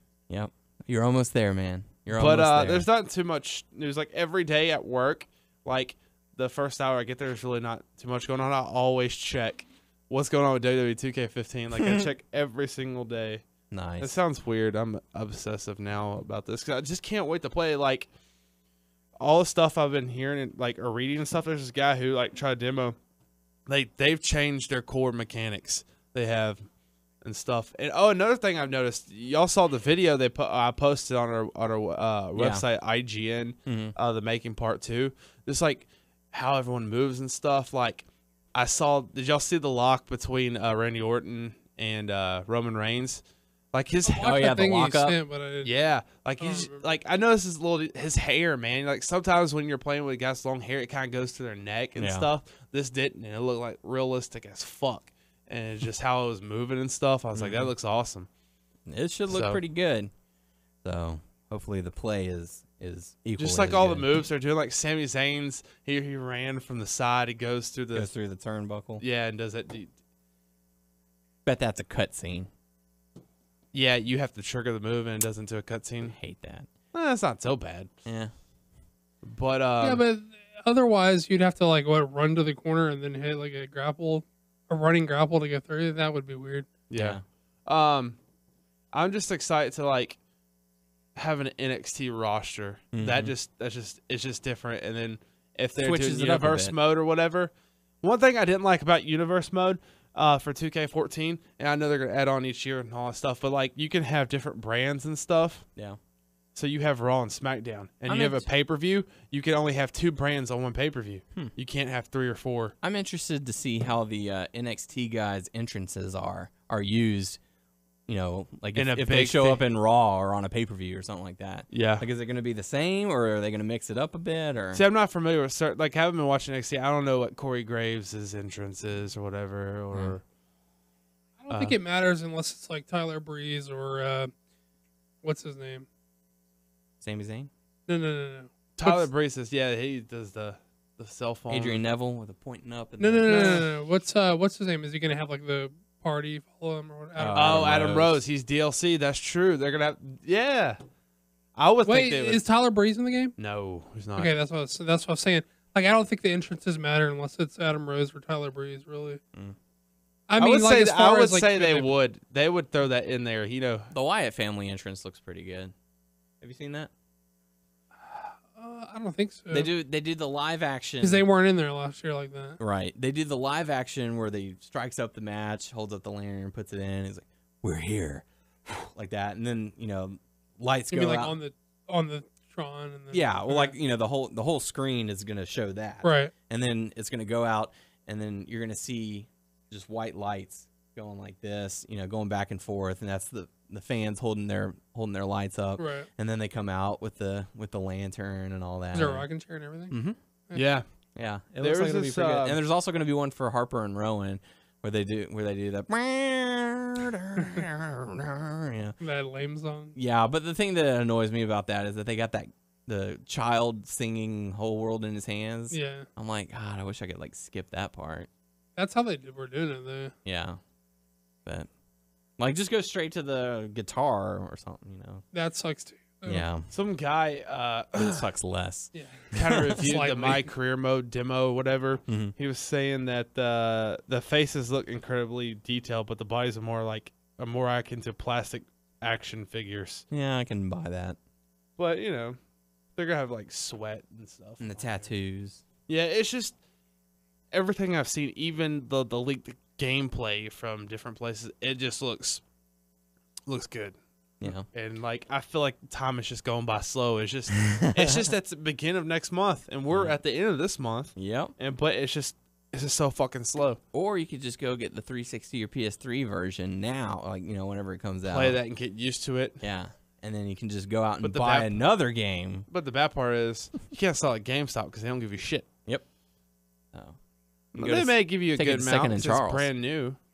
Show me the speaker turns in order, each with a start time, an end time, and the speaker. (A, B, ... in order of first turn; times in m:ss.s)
0:00.3-0:02.9 A
0:02.2-0:13.4 B
0:11.8-0:12.1 A
0:13.7-0:14.1 A
0:14.0-0:18.1 B
0:19.2-0:23.0 B
0:23.7-0:26.6 B
0:27.2-0:43.2 B
0:32.4-0:32.6 A
0:33.7-0:33.9 A
0:43.7-0:44.4 B
0:44.1-0:45.7 C
0:44.2-0:45.2 A
0:45.6-0:58.3 B
0:46.4-0:46.9 C
0:52.0-0:52.3 A
0:57.3-0:57.7 A
0:58.9-1:00.1 A
0:59.3-0:59.6 B
1:00.8-1:04.1 A
1:03.4-1:08.1 B
1:07.9-1:09.0 A
1:09.0-1:09.9 B
1:11.5-1:12.5 A
1:13.7-1:16.2 B
1:16.0-1:16.7 A
1:16.9-1:17.9 B
1:18.1-1:18.3 A
1:19.2-1:20.0 B
1:19.8-1:26.7 C
1:26.9-1:28.2 B
1:27.0-1:27.2 A
1:28.9-1:30.2 B
1:31.2-1:37.5 B
1:32.9-1:33.3 A
1:35.8-1:36.8 A
1:38.0-1:45.7 B
1:46.6-1:52.8 B
1:48.1-1:48.5 A
1:52.8-1:57.4 A
1:58.1-2:04.8 A
1:58.8-1:59.6 B
2:01.7-2:02.1 B
2:04.7-2:10.2 B
2:11.4-2:14.3 C
2:11.5-2:11.8 B
2:15.2-2:15.9 C
2:17.0-2:17.5 A
2:17.9-2:19.1 C
2:18.8-2:21.8 B
2:21.5-2:23.7 A
2:23.0-2:27.7 C
2:27.2-2:28.2 A
2:27.3-2:30.8 B
2:31.6-2:32.4 B
2:31.8-2:33.3 C
2:33.4-2:34.3 B
2:34.2-2:39.2 C
2:40.3-2:41.9 C
2:40.4-2:43.9 B
2:43.9-2:45.7 A
2:46.4-2:46.9 A
2:48.1-2:49.7 C
2:49.5-2:51.2 A
2:51.0-2:52.6 C
2:52.6-3:01.3 A
3:00.9-3:03.7 C
3:03.1-3:19.3 A
3:06.0-3:06.3 C
3:15.8-3:16.1 C
3:18.9-3:20.0 C
3:19.9-3:20.2 A
3:20.6-3:20.8 B
3:21.2-3:29.0 A
3:21.6-3:22.6 B
3:27.4-3:27.6 C
3:29.0-3:30.0 C
3:30.0-3:38.3 A
3:35.7-3:36.1 C
3:38.8-3:40.1 C
3:40.2-3:40.6 A
3:42.4-3:45.2 A
3:45.3-3:46.4 C
3:46.3-3:46.7 A
3:46.7-3:48.2 B
3:48.0-3:49.7 A
3:48.9-3:50.5 C
3:49.3-4:00.0 B
3:52.1-3:52.3 A
4:00.1-4:01.2 A
4:01.8-4:02.4 B
4:03.0-4:05.1 B
4:04.6-4:05.6 A
4:05.9-4:06.6 B
4:07.5-4:12.4 B
4:13.5-4:23.8 B
4:14.4-4:14.7 A
4:17.7-4:18.3 A
4:19.9-4:20.2 A
4:21.2-4:21.5 A
4:23.9-4:28.6 A
4:28.3-4:29.6 B
4:29.6-4:32.7 A
4:31.2-4:31.7 B
4:32.7-4:35.7 B
4:37.8-4:39.7 A
4:37.8-4:40.2 B